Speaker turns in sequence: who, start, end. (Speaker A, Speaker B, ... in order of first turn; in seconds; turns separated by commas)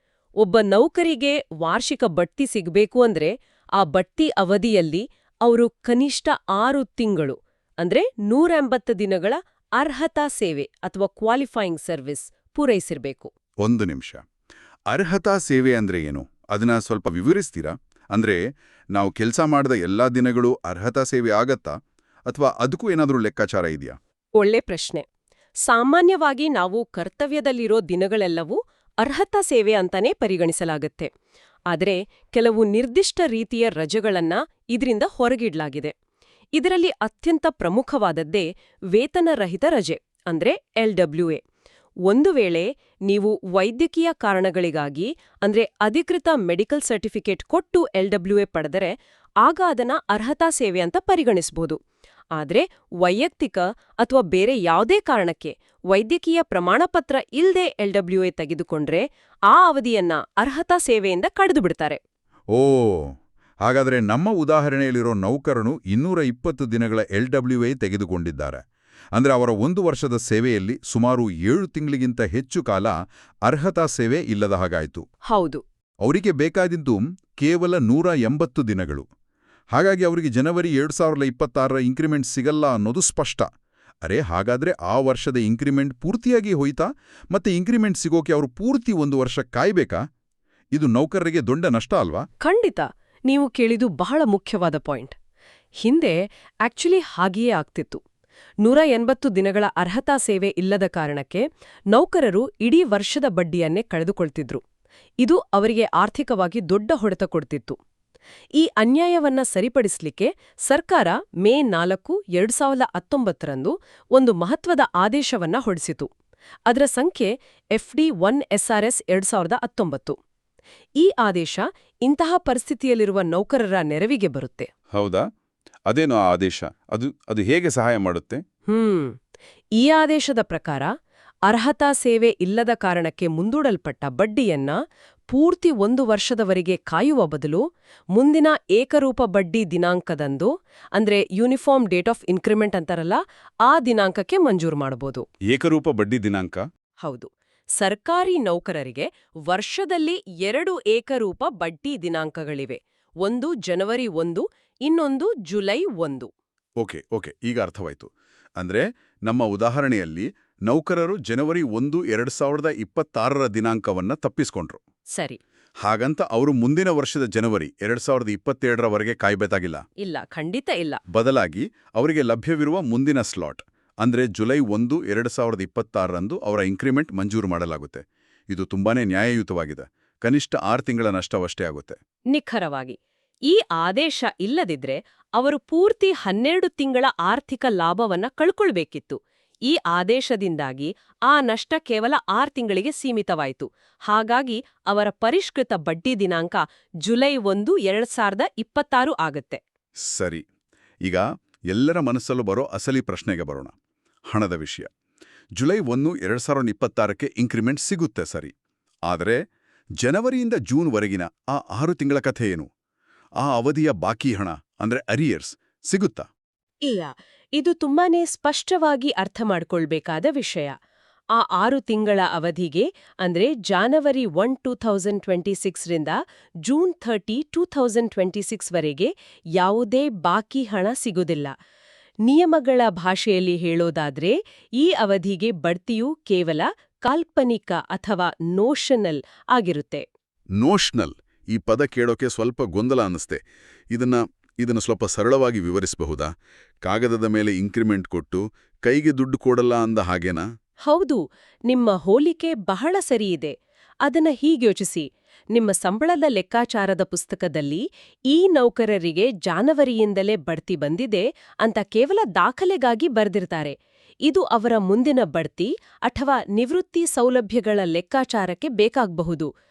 Speaker A: 0.4-13.3, Speaker B: 13.6-14.2, Speaker B: 14.9-18.4, Speaker B: 18.9-21.8, Speaker B: 22.3-24.0, Speaker A: 24.4-25.0, Speaker A: 25.6-31.1, Speaker A: 31.7-35.9, Speaker A: 36.5-41.4, Speaker A: 42.1-51.8, Speaker A: 52.4-62.0, Speaker B: 62.5-68.6, Speaker B: 69.1-72.9, Speaker B: 73.5-75.0, Speaker A: 75.3-75.6, Speaker B: 76.0-79.1, Speaker B: 79.7-83.5, Speaker B: 84.0-90.0, Speaker B: 90.7-92.2, Speaker A: 92.4-95.1, Speaker A: 95.8-98.0, Speaker A: 98.6-104.6, Speaker A: 105.2-107.8, Speaker A: 108.6-116.1, Speaker A: 116.7-120.2, Speaker A: 121.0-124.7, Speaker B: 124.9-125.2, Speaker B: 125.9-128.4, Speaker A: 128.7-129.2, Speaker A: 129.8-130.9, Speaker A: 131.5-134.8, Speaker A: 135.3-137.6, Speaker A: 138.1-145.2, Speaker B: 145.5-146.6, Speaker A: 147.0-156.3, Speaker B: 156.8-164.8, Speaker B: 165.8-169.8, Speaker A: 170.0-171.0, Speaker B: 171.1-182.0, Speaker A: 182.3-183.0, Speaker A: 183.5-199.6, Speaker B: 200.0-200.4, Speaker B: 201.0-203.7, Speaker B: 204.3-204.9, Speaker B: 205.6-208.5, Speaker B: 209.1-209.4, Speaker B: 210.0-212.7, Speaker B: 213.4-216.3, Speaker A: 216.8-220.7, Speaker A: 221.3-231.5, Speaker A: 232.2-240.0, Speaker B: 240.6-243.4, Speaker B: 243.9-246.3, Speaker B: 246.8-250.4, Speaker A: 250.9-263.8, Speaker A: 264.3-269.5